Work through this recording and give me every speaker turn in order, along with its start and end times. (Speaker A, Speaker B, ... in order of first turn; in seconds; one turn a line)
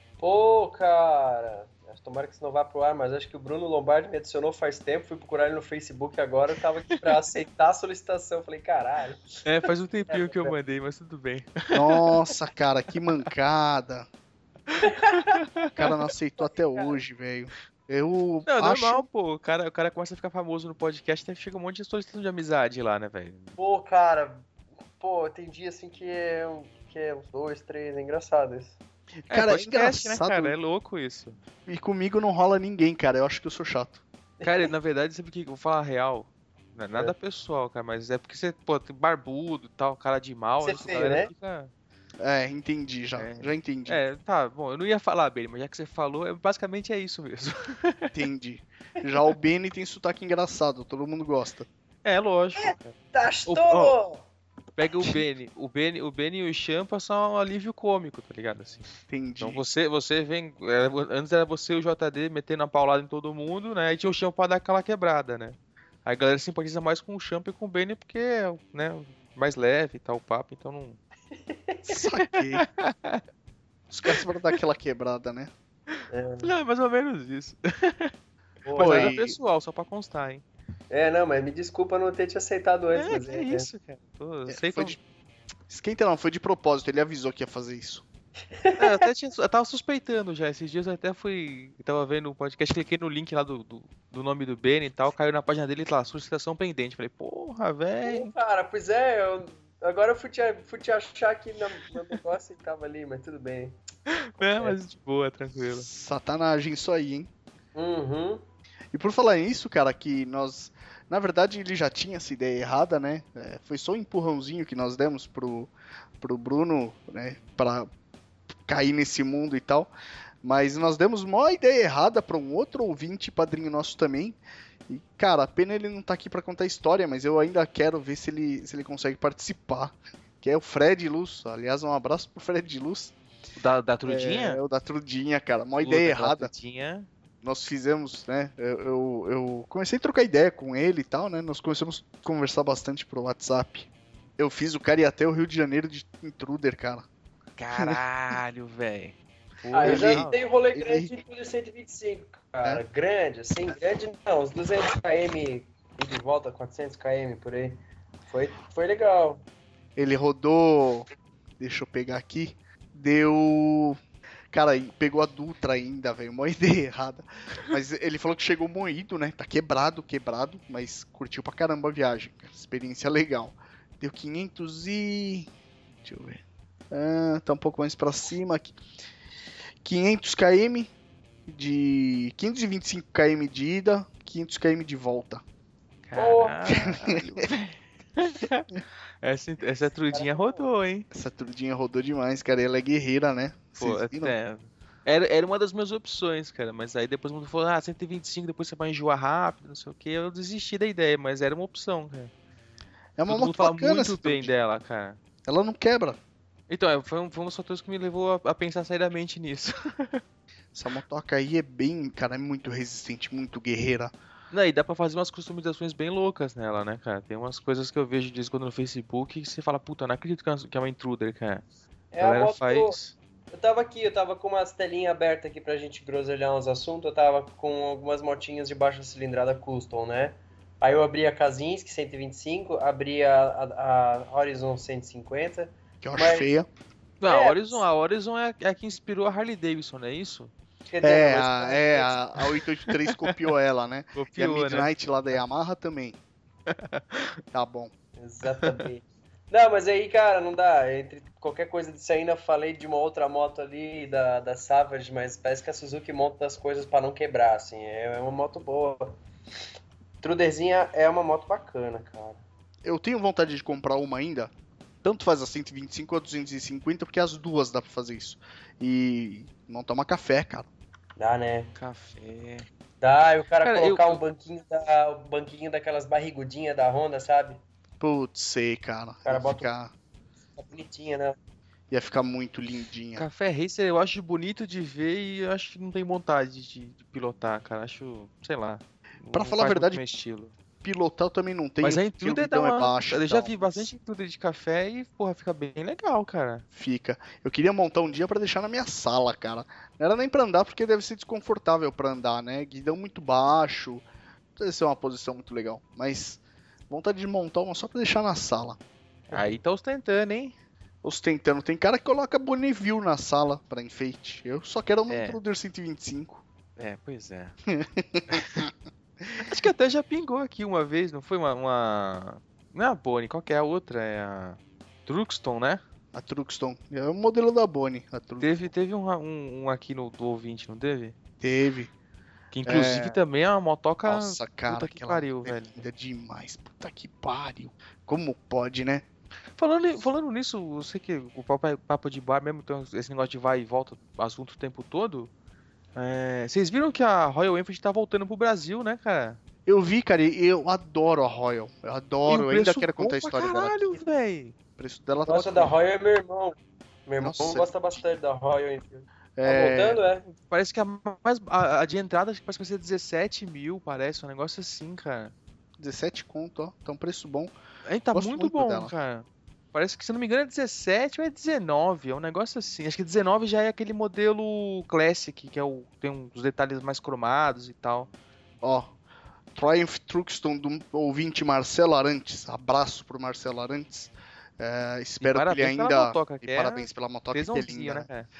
Speaker A: 0.2-9.3
Speaker B: 9.4-12.1
Speaker A: 10.1-10.6
Speaker C: 11.7-14.1
Speaker B: 14.7-15.7
Speaker A: 14.8-15.4
Speaker C: 15.8-19.0
Speaker A: 16.4-17.0
Speaker B: 18.4-23.6
Speaker A: 23.6-28.8
Speaker C: 29.3-30.5
Speaker B: 29.3-31.4
Speaker C: 31.6-34.0
Speaker A: 34.4-34.7
Speaker B: 34.4-41.7
Speaker A: 40.6-41.3
Speaker C: 42.2-44.0
Speaker B: 43.1-48.1
Speaker C: 48.1-51.7
Speaker B: 52.0-52.9
Speaker A: 52.6-54.2
Speaker B: 53.5-54.0
Speaker B: 54.8-58.9
Speaker C: 59.1-59.6
Speaker B: 59.4-71.0
Speaker A: 71.3-72.0
Speaker C: 71.9-72.7
Speaker B: 72.5-73.2
Speaker C: 73.9-75.5
Speaker A: 76.1-76.5
Speaker B: 76.4-78.1
Speaker A: 78.6-79.1
Speaker B: 78.8-80.4
Speaker C: 78.8-79.4
Speaker A: 80.9-83.7
Speaker B: 82.9-85.0
Speaker C: 84.5-85.0
Speaker C: 85.7-88.0
Speaker A: 88.5-89.0
Speaker B: 88.8-98.3
Speaker A: 98.0-103.8
Speaker B: 104.1-105.9
Speaker A: 104.4-104.8
Speaker C: 105.8-107.3
Speaker A: 107.7-108.4
Speaker C: 108.9-117.9
Speaker C: 118.7-119.9
Speaker C: 120.4-124.4
Speaker C: 124.9-133.1
Speaker B: 133.6-134.6
Speaker C: 134.0-136.5
Speaker B: 135.8-137.1
Speaker C: 137.4-147.0
Speaker B: 147.6-150.4
Speaker C: 147.7-148.0
Speaker A: 149.7-159.4
Speaker C: 149.8-151.1
Speaker C: 160.0-161.1
Speaker C: 161.6-164.0
Speaker C: 164.5-175.5
Speaker C: 176.0-178.7
Speaker C: 179.8-180.9
Speaker C: 181.5-185.4
Speaker B: 186.1-191.1
Speaker A: 186.2-186.7
Speaker C: 186.7-187.4
Speaker A: 190.1-190.7
Speaker C: 191.1-194.3
Speaker B: 193.8-202.3
Speaker C: 203.2-204.5
Speaker B: 203.3-205.2
Speaker C: 205.4-206.2
Speaker B: 206.7-210.2
Speaker C: 210.7-214.1
Speaker B: 214.5-221.6
Speaker A: 222.1-223.0
Speaker B: 222.2-223.1
Speaker A: 223.5-236.5
Speaker C: 236.0-236.7
Speaker B: 237.2-240.5
Speaker A: 237.2-237.8
Speaker A: 240.9-242.2
Speaker C: 241.0-246.2
Speaker B: 244.1-244.9
Speaker B: 246.7-247.3
Speaker C: 247.5-247.9
Speaker A: 248.2-259.2
Speaker B: 248.5-248.8
Speaker A: 260.2-262.4
Speaker C: 262.8-264.5
Speaker C: 265.0-270.7
Speaker A: 271.2-271.7
Speaker B: 271.8-272.6
Speaker A: 273.0-277.6
Speaker B: 273.6-274.2
Speaker C: 278.0-279.9
Speaker A: 279.2-279.7
Speaker A: 280.6-281.4
Speaker C: 281.9-283.2
Speaker B: 283.1-290.5
Speaker C: 289.3-290.0
Speaker C: 290.8-293.9
Speaker B: 291.8-296.6
Speaker C: 296.7-304.0
Speaker C: 304.6-308.8
Speaker B: 309.3-310.5
Speaker C: 311.0-316.4
Speaker B: 315.1-315.4
Speaker B: 316.8-317.6
Speaker C: 317.7-318.7
Speaker B: 318.3-318.6
Speaker B: 319.4-325.8
Speaker C: 326.1-328.7
Speaker B: 328.4-331.1
Speaker C: 331.4-331.9
Speaker B: 332.5-335.8
Speaker C: 332.6-333.2
Speaker C: 334.1-339.0
Speaker B: 339.6-345.3
Speaker B: 345.9-349.4
Speaker C: 349.6-353.9
Speaker B: 352.2-354.5
Speaker C: 354.8-355.7
Speaker A: 355.2-360.2
Speaker C: 357.2-357.8
Speaker C: 359.4-360.0
Speaker B: 360.3-365.3
Speaker C: 365.8-367.5
Speaker B: 367.8-378.1
Speaker C: 368.1-368.9
Speaker C: 378.6-378.9
Speaker C: 379.5-388.1
Speaker B: 385.2-388.3